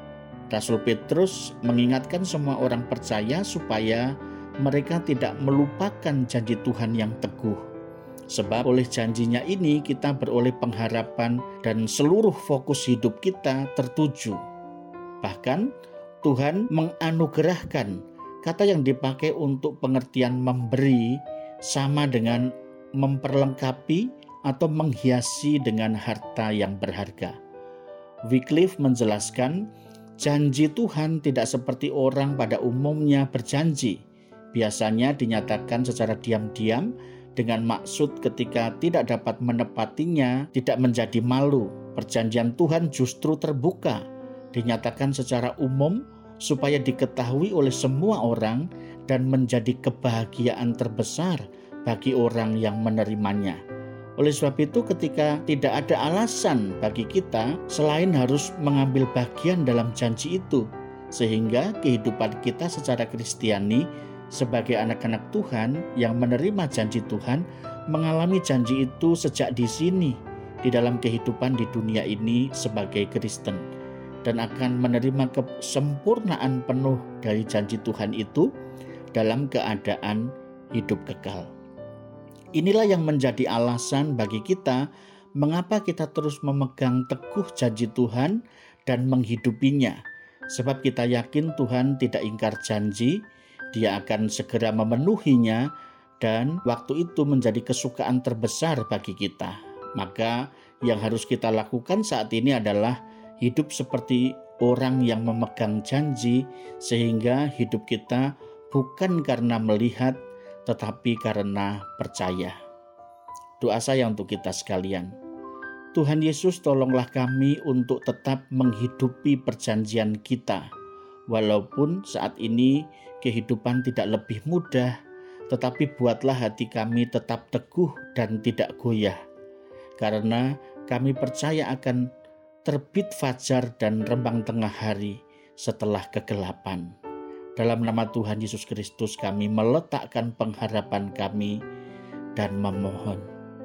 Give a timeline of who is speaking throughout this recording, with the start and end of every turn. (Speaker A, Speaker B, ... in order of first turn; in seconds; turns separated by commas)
Speaker A: 0.5-7.6, Speaker A: 8.3-14.4, Speaker A: 15.2-15.7, Speaker A: 16.2-27.4, Speaker A: 28.3-29.7, Speaker A: 30.2-34.0, Speaker A: 34.5-53.6, Speaker A: 54.2-73.7, Speaker A: 74.2-78.5, Speaker A: 79.1-81.5, Speaker A: 82.6-84.8, Speaker A: 85.4-90.0, Speaker A: 90.5-93.2, Speaker A: 93.7-95.7, Speaker A: 96.2-112.6, Speaker A: 113.6-115.1, Speaker A: 115.9-120.7, Speaker A: 121.3-125.0, Speaker A: 125.5-129.2, Speaker A: 130.0-132.1, Speaker A: 132.7-136.9, Speaker A: 137.6-141.6, Speaker A: 142.4-143.3